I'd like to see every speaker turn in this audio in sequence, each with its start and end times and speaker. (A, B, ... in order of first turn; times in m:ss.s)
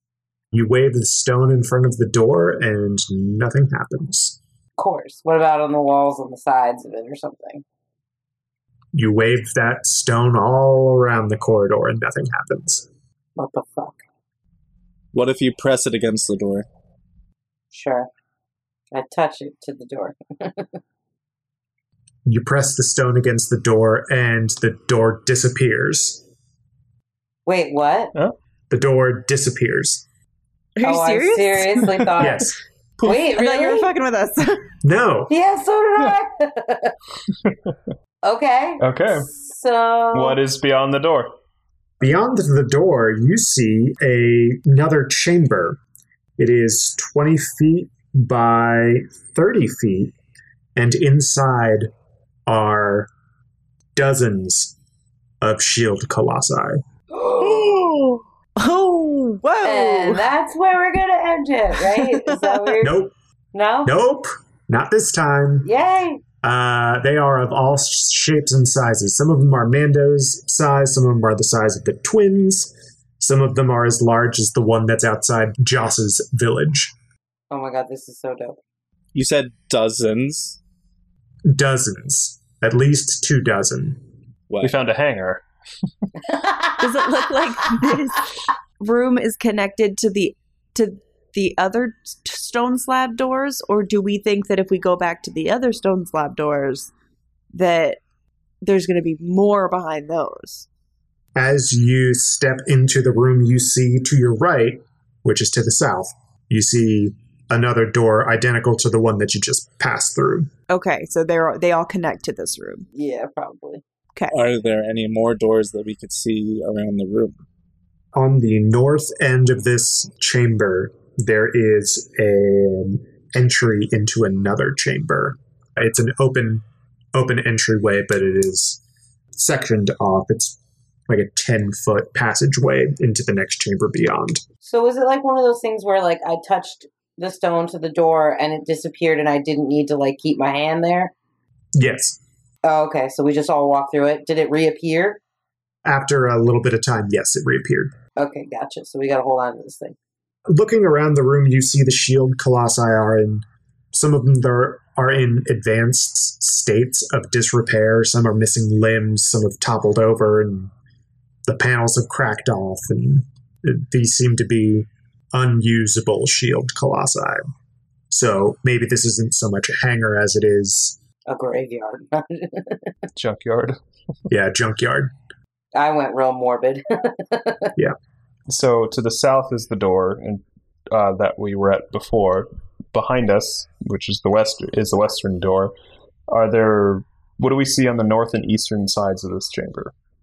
0:00.5-0:04.4 A
0:04.8-0:07.6 B
0:08.9-0:12.9 A
0:13.4-0:14.0 B
0:15.1-0:16.7 C
0:17.7-0:18.1 B
0:18.9-0:20.8 B
0:22.3-0:26.2 A
0:27.5-0:28.1 B
0:28.7-0:30.1 A
0:30.8-0:31.9 D
0:30.8-0:32.5 B
0:32.2-0:32.6 A
0:33.0-0:33.9 B
0:33.0-0:34.7 D
0:34.8-0:35.3 A
0:35.3-0:37.0 B
0:37.4-0:37.8 E
0:38.2-0:40.4 B
0:38.8-0:39.3 E
0:40.1-0:41.3 E
0:42.0-0:45.8 A
0:46.4-0:50.2 A
0:50.8-0:51.9 A
0:52.5-0:53.1 A
0:54.0-0:54.8 A
0:55.4-0:56.8 A
0:57.1-0:57.7 B
0:57.4-1:00.2 D
0:59.6-1:03.0 B
1:01.9-1:02.7 D
1:02.8-1:03.1 A
1:03.5-1:03.9 B
1:03.8-1:05.7 A
1:05.6-1:06.2 B
1:06.4-1:17.0 A
1:17.5-1:18.6 B
1:19.1-1:20.6 C
1:21.5-1:24.0 A
1:24.6-1:25.4 E
1:26.4-1:26.8 B
1:26.8-1:36.9 D
1:37.5-1:38.0 D
1:38.6-1:40.7 D
1:41.4-1:50.5 A
1:50.7-1:52.9 D
1:52.9-1:53.8 B
1:54.3-1:57.4 C
1:58.2-2:08.8 A
2:09.4-2:10.6 A
2:11.1-2:14.4 A
2:14.6-2:21.1 B
2:21.8-2:22.2 A
2:22.6-2:25.2 B
2:25.8-2:27.9 A
2:28.2-2:30.0 B
2:30.5-2:40.7 A
2:41.5-2:47.5 A
2:48.1-2:51.0 A
2:51.3-2:52.9 B
2:53.2-2:53.8 E
2:54.3-2:55.1 A
2:55.7-2:57.7 B
2:58.5-3:05.7 E
3:06.3-3:09.9 E